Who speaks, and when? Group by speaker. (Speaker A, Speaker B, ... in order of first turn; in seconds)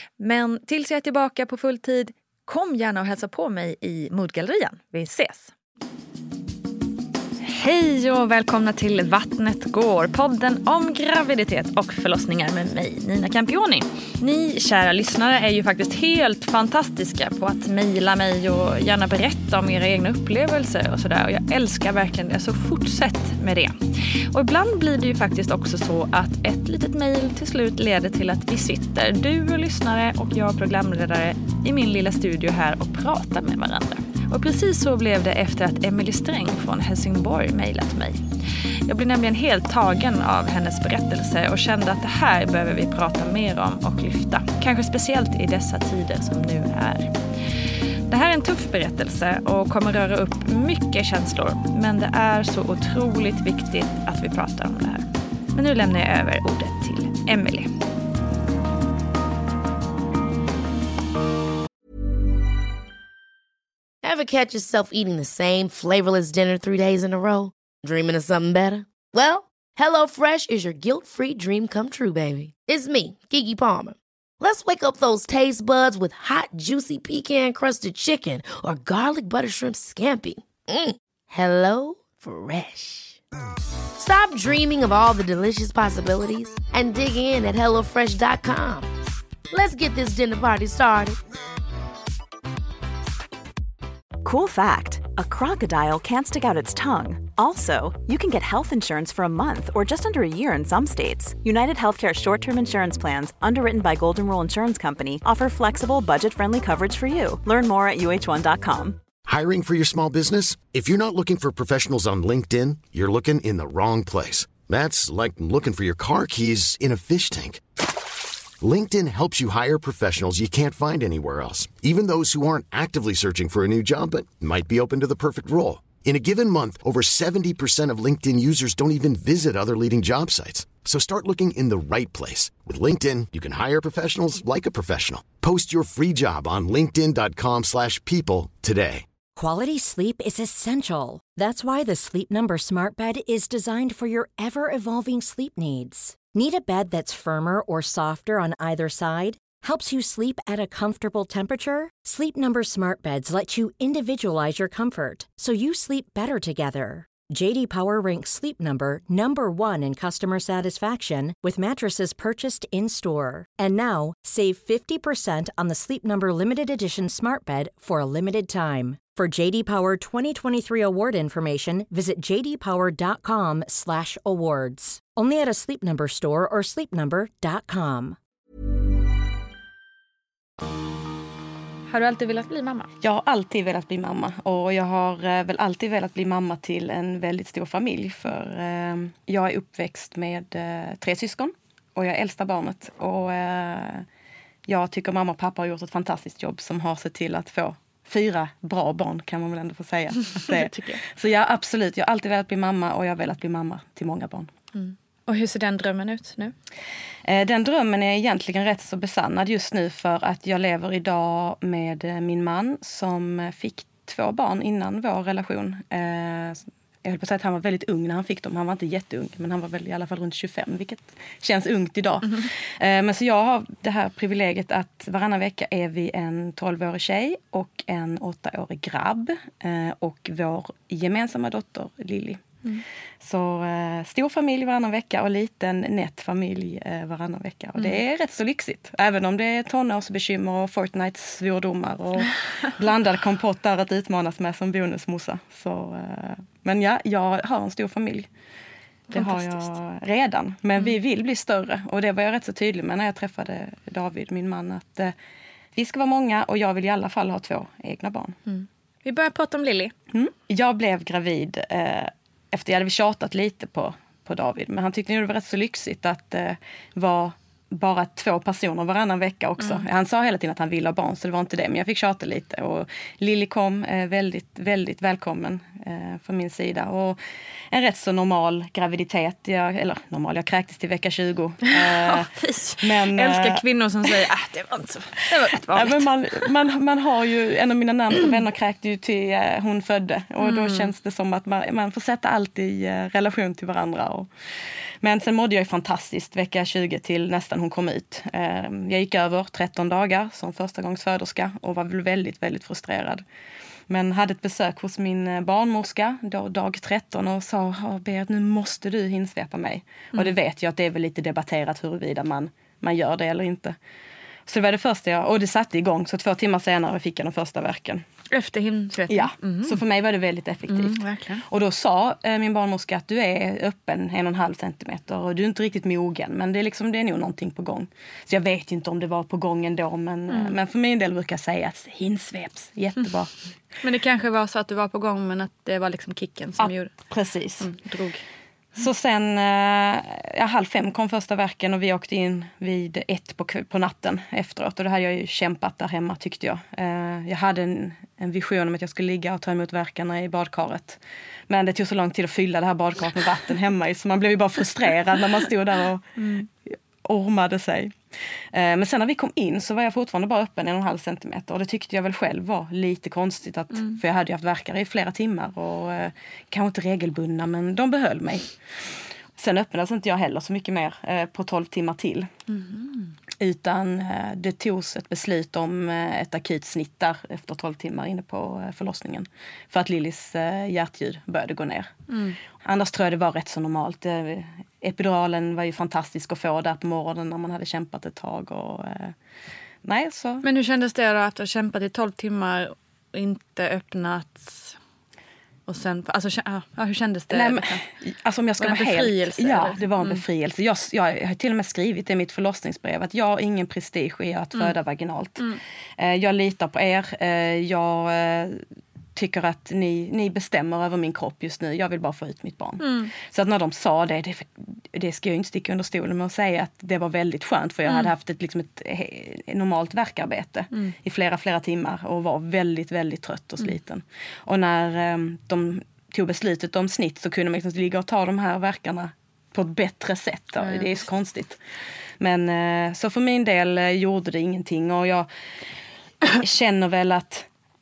Speaker A: 0.2-5.5, 7.4-23.7, 24.3-38.2, 38.9-47.1, 48.1-57.7, 181.9-182.9, 200.3-201.0, 204.7-206.5, 249.1-249.7, 258.4-259.9, 269.6-269.8, 281.7-286.5, 290.4-290.9, 318.3-319.8, 320.7-321.4, 330.3-330.6, 333.8-336.9, 337.6-338.2, 356.2-356.4, 363.7-364.0, 372.5-373.1, 382.1-382.4, 390.4-394.8, 395.7-397.8, 398.6-400.2, 412.8-413.1, 430.6-431.0
Speaker B: 64.0-83.2, 84.0-88.9, 89.5-91.2
Speaker C: 94.2-109.0
Speaker D: 109.2-117.6, 118.6-139.1
Speaker E: 139.3-178.2
Speaker F: 183.0-194.1, 194.7-204.5, 207.2-232.4, 233.2-248.3, 249.1-255.1, 255.7-258.4, 260.1-277.2, 277.7-283.6, 285.7-294.3, 295.0-303.2, 303.9-313.8, 314.5-318.0, 319.1-333.3, 336.6-337.7, 338.8-356.4, 357.0-357.9, 358.5-368.5, 369.4-372.3, 373.4-381.9, 382.6-389.1, 389.8-390.4, 397.3-405.4, 406.0-408.6, 409.1-431.6, 432.2-435.3, 436.3-437.5